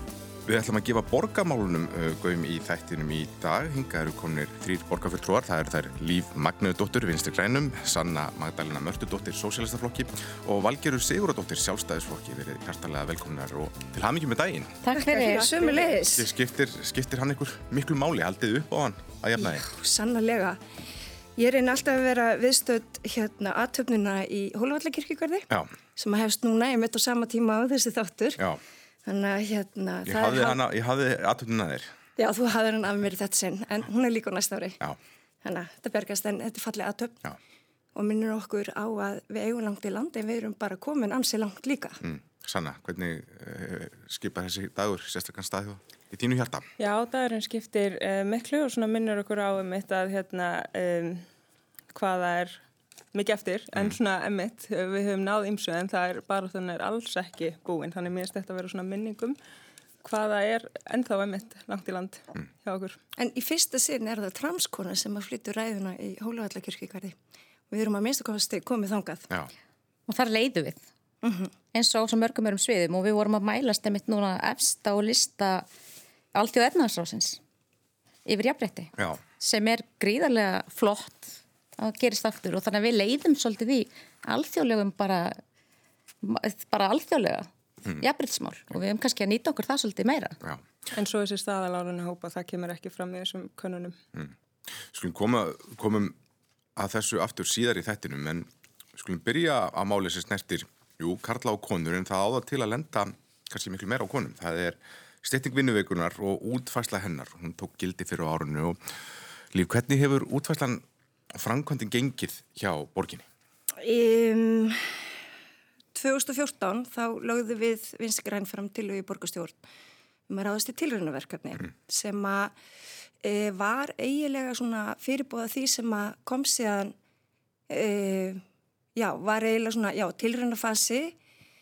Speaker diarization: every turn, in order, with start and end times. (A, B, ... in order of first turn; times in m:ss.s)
0:00.4-0:14.8 A
0:14.8-0:15.6 B
0:15.0-0:16.3 C
0:16.0-0:19.7 A
0:19.4-0:20.6 C
0:21.4-0:28.4 C
0:29.0-0:30.6 C
0:30.0-0:31.9 A
0:32.2-0:34.8 C
0:35.4-0:37.2 C
0:37.9-0:42.0 C
0:42.0-0:46.7 A
0:46.8-0:51.2 D
0:51.9-0:52.6 D
0:53.1-0:59.4 D
1:00.0-1:03.0 D
1:03.2-1:07.2 C
1:07.7-1:09.3 C
1:10.1-1:10.8 B
1:11.2-1:11.5 C
1:11.7-1:15.7 B
1:16.3-1:17.4 B
1:18.2-1:25.4 B
1:26.2-1:30.4 B
1:30.9-1:34.0 D
1:34.1-1:36.2 A
1:36.8-1:48.8 A
1:49.5-1:53.2 A
1:53.8-1:55.1 C
1:55.9-1:59.6 C
2:00.3-2:02.5 C
2:03.2-2:06.9 C
2:07.7-2:08.4 C
2:09.0-2:11.1 C